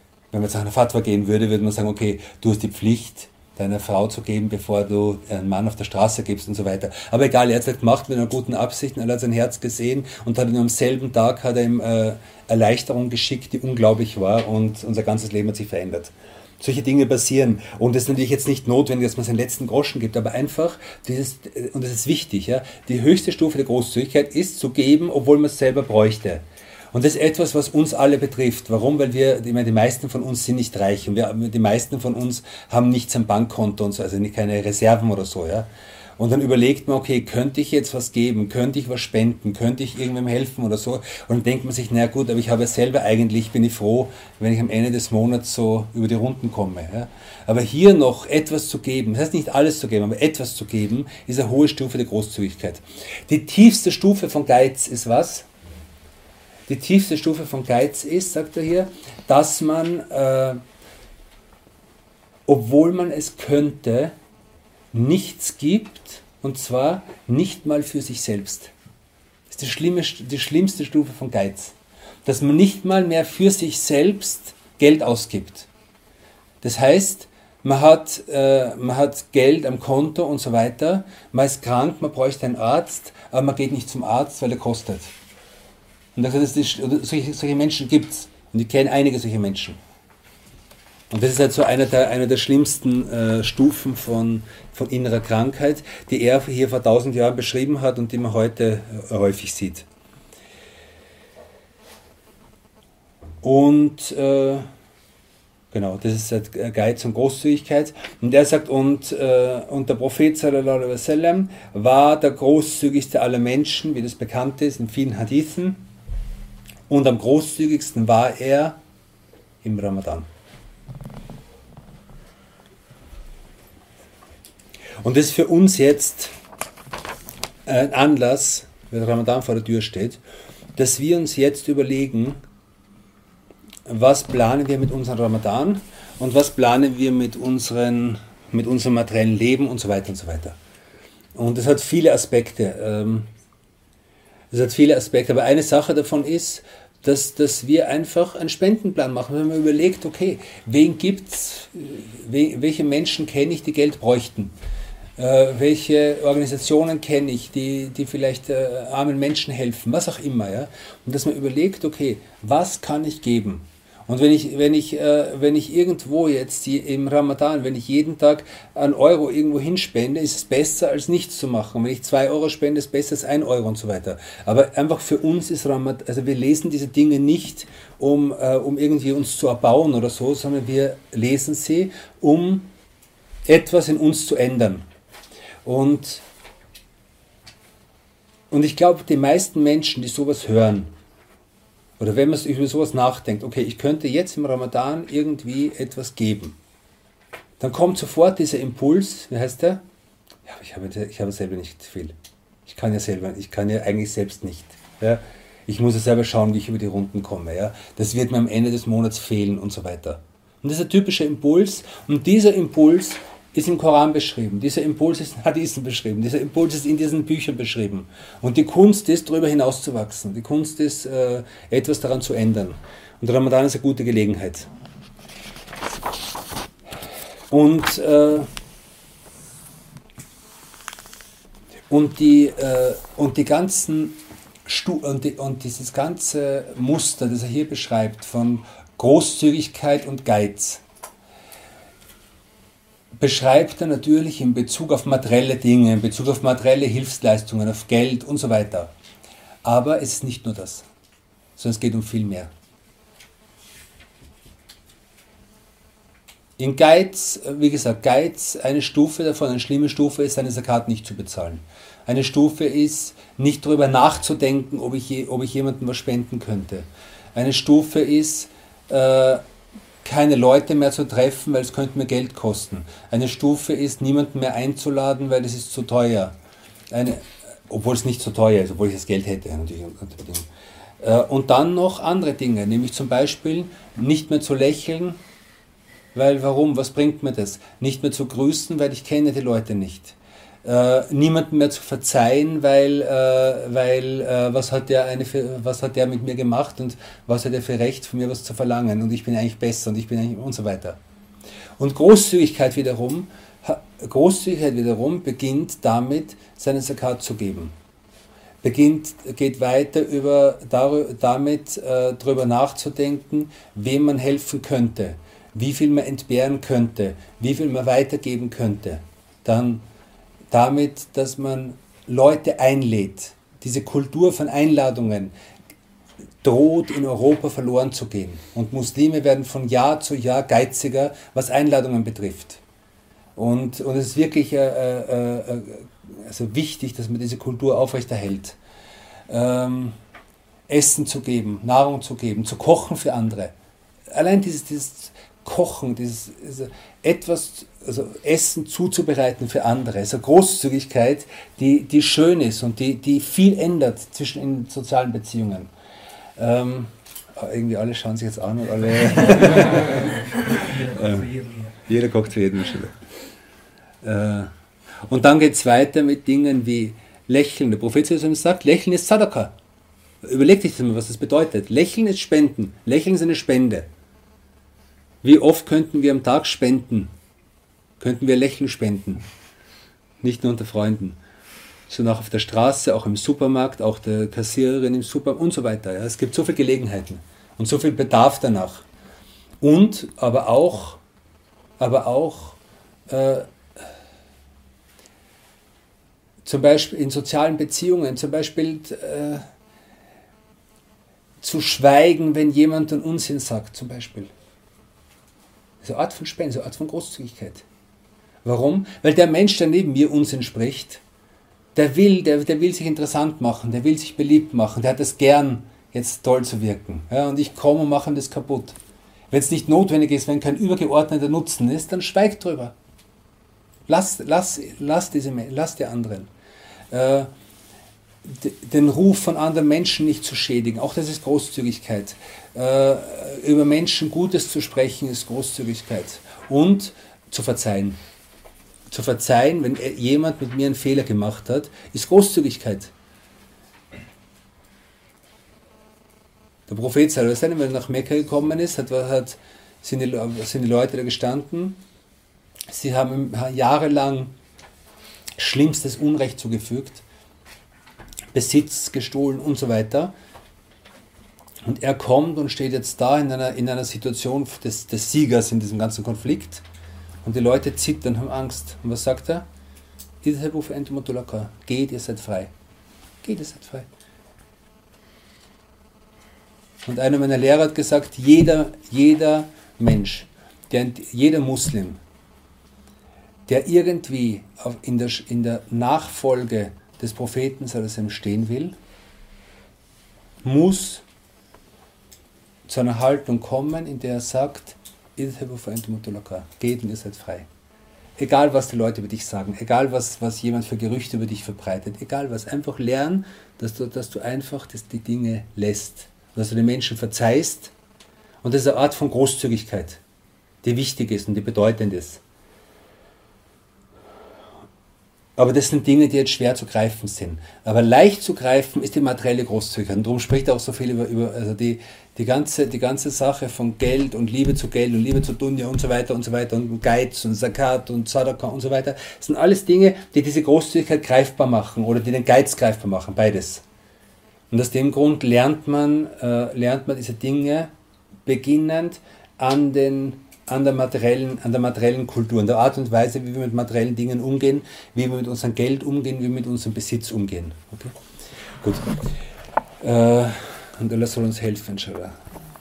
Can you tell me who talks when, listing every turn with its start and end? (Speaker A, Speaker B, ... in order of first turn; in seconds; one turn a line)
Speaker A: 0.3-55.5
Speaker A: 56.7-60.6
Speaker A: 62.5-64.1
Speaker A: 64.9-68.7
Speaker A: 69.5-75.7
Speaker A: 76.6-85.1
Speaker A: 86.2-89.8
Speaker A: 91.1-99.9
Speaker A: 103.4-104.7
Speaker A: 105.7-115.8
Speaker A: 116.9-118.8
Speaker A: 119.6-120.3
Speaker A: 125.0-126.3
Speaker A: 127.7-130.2
Speaker A: 130.8-132.4
Speaker A: 133.9-140.6
Speaker A: 141.3-143.3
Speaker A: 144.5-154.5
Speaker A: 155.2-182.7
Speaker A: 183.5-184.8
Speaker A: 185.6-186.2
Speaker A: 188.5-190.9
Speaker A: 192.0-196.6
Speaker A: 197.6-199.8
Speaker A: 200.4-202.1
Speaker A: 202.7-224.7
Speaker A: 227.5-228.5
Speaker A: 231.9-240.8
Speaker A: 243.2-248.9
Speaker A: 249.6-250.9
Speaker A: 251.6-252.5
Speaker A: 256.6-269.4
Speaker A: 270.0-276.4
Speaker A: 276.9-280.5
Speaker A: 281.0-285.2
Speaker A: 286.1-301.0
Speaker A: 301.8-307.7
Speaker A: 308.6-319.9
Speaker A: 320.5-325.3
Speaker A: 326.4-332.6
Speaker A: 333.4-338.6
Speaker A: 339.3-340.0
Speaker A: 340.7-343.5
Speaker A: 344.1-355.7
Speaker A: 356.4-363.0
Speaker A: 364.0-364.5
Speaker A: 365.1-369.5
Speaker A: 370.2-373.9
Speaker A: 375.2-377.1
Speaker A: 378.0-379.2
Speaker A: 380.2-381.2
Speaker A: 381.9-388.9
Speaker A: 389.6-391.0
Speaker A: 391.8-393.5
Speaker A: 396.4-399.4
Speaker A: 401.4-404.3
Speaker A: 405.8-407.6
Speaker A: 408.4-411.0
Speaker A: 411.8-418.8
Speaker A: 419.3-422.7
Speaker A: 423.9-426.3
Speaker A: 426.9-427.3
Speaker A: 428.2-438.0
Speaker A: 438.9-442.9
Speaker A: 446.7-451.8
Speaker A: 452.7-454.3
Speaker A: 455.4-457.0
Speaker A: 458.3-460.1
Speaker A: 461.6-466.6
Speaker A: 467.2-469.5
Speaker A: 470.2-472.5
Speaker A: 473.2-473.9
Speaker A: 476.9-482.0
Speaker A: 483.5-488.8
Speaker A: 490.4-491.0
Speaker A: 492.7-497.5
Speaker A: 498.2-507.7
Speaker A: 508.4-510.0
Speaker A: 510.6-512.2
Speaker A: 515.4-533.6
Speaker A: 534.5-537.7
Speaker A: 538.3-548.0
Speaker A: 548.6-548.9
Speaker A: 549.8-552.2